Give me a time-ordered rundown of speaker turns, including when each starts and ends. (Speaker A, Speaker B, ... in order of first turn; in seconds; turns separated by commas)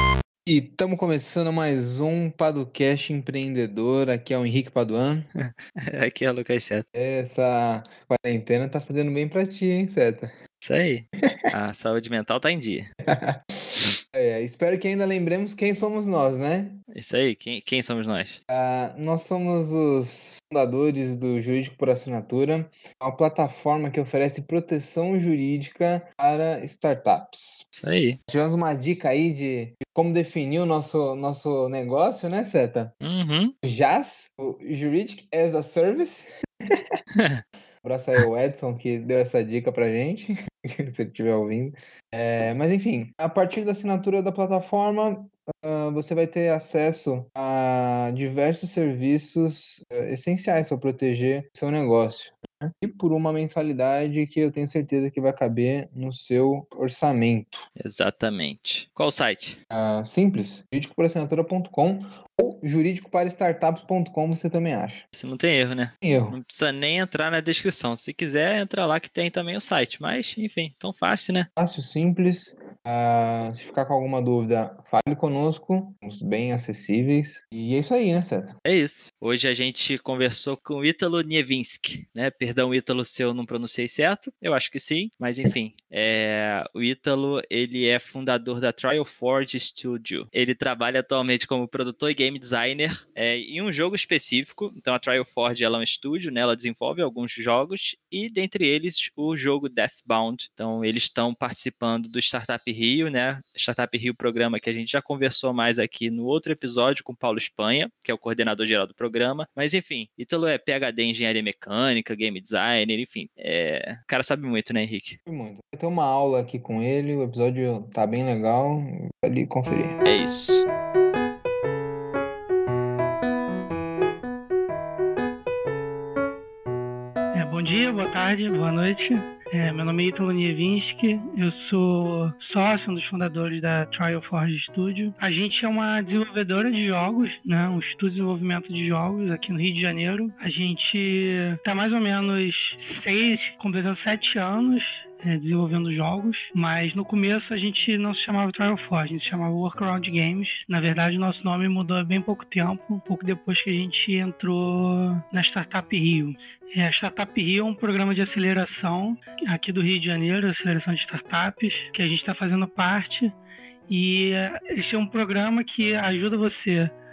Speaker A: 0.5-5.3, Speaker B: 5.4-6.8, Speaker A: 6.9-10.3, Speaker B: 10.6-12.9, Speaker A: 13.1-13.4, Speaker A: 14.1-16.8, Speaker B: 16.9-18.4, Speaker A: 18.5-27.6, Speaker B: 27.8-28.2, Speaker A: 28.3-32.9, Speaker B: 33.0-33.5, Speaker A: 33.6-37.0, Speaker A: 37.8-57.6, Speaker B: 57.8-59.6, Speaker A: 59.7-65.0, Speaker B: 65.2-71.5, Speaker A: 66.0-66.4, Speaker A: 71.6-78.6, Speaker B: 78.6-115.2, Speaker A: 115.2-120.0, Speaker B: 120.0-120.6, Speaker C: 127.3-163.3, Speaker C: 163.9-166.9